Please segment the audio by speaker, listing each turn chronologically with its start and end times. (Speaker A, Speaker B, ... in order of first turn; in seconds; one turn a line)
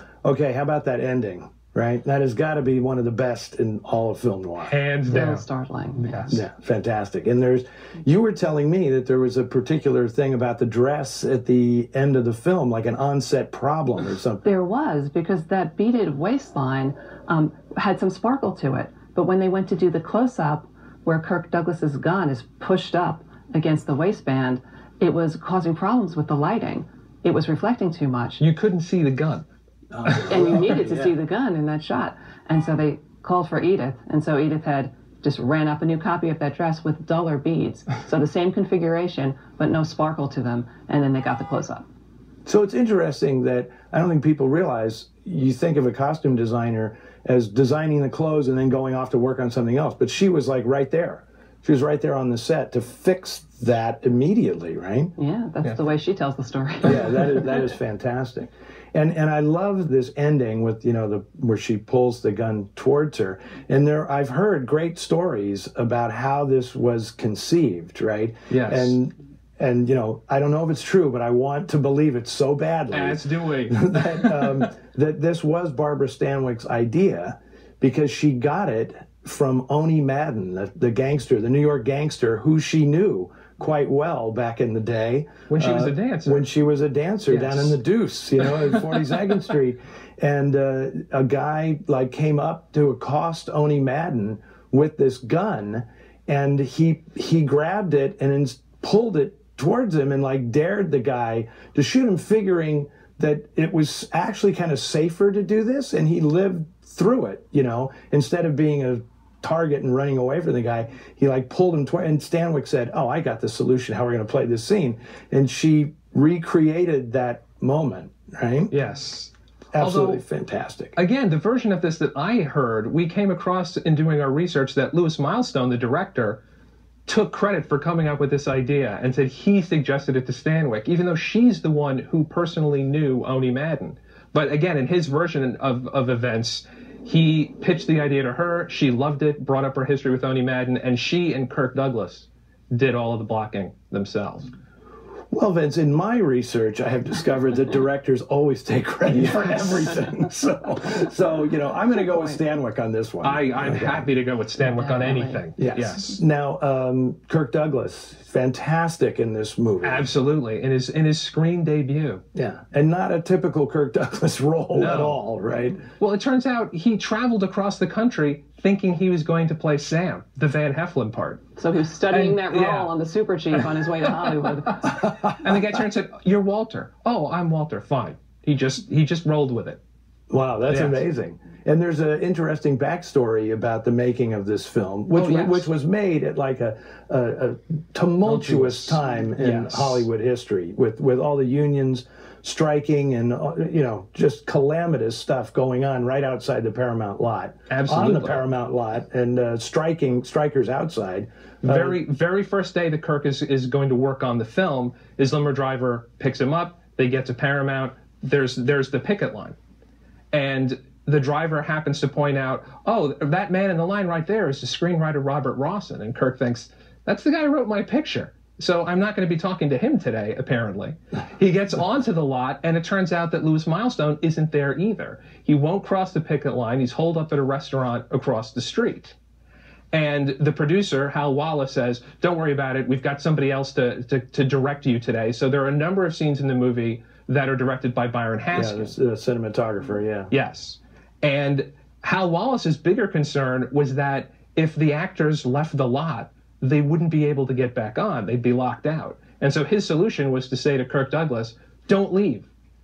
Speaker A: 0.2-4.7
Speaker B: 4.6-5.4
Speaker C: 5.1-6.4
Speaker B: 6.0-6.4
Speaker A: 6.3-14.4
Speaker C: 14.4-28.4
Speaker B: 28.4-29.4
Speaker A: 29.9-31.1
Speaker B: 30.1-30.4
Speaker C: 30.3-41.8
Speaker A: 42.5-55.1
Speaker C: 55.2-57.1
Speaker A: 56.8-118.7
Speaker B: 68.5-69.0
Speaker B: 72.9-74.6
Speaker B: 85.5-86.5
Speaker B: 87.3-87.8
Speaker B: 118.7-120.2
Speaker A: 119.7-120.9
Speaker B: 121.0-126.4
Speaker B: 127.1-144.5
Speaker A: 145.3-154.1
Speaker B: 149.2-149.9
Speaker B: 153.2-156.2
Speaker C: 154.6-155.4
Speaker A: 155.6-160.1
Speaker B: 159.8-162.2
Speaker A: 162.3-165.8
Speaker B: 164.7-165.2
Speaker B: 166.0-171.4
Speaker C: 171.6-175.0
Speaker B: 172.1-172.9
Speaker B: 173.5-174.2
Speaker B: 174.9-179.8
Speaker A: 180.3-202.0
Speaker B: 180.7-181.0
Speaker B: 185.1-185.7
Speaker B: 188.2-190.1
Speaker B: 197.7-198.4
Speaker B: 201.6-209.6
Speaker B: 210.3-229.2
Speaker B: 229.9-238.9
Speaker A: 238.5-240.3
Speaker B: 240.3-252.5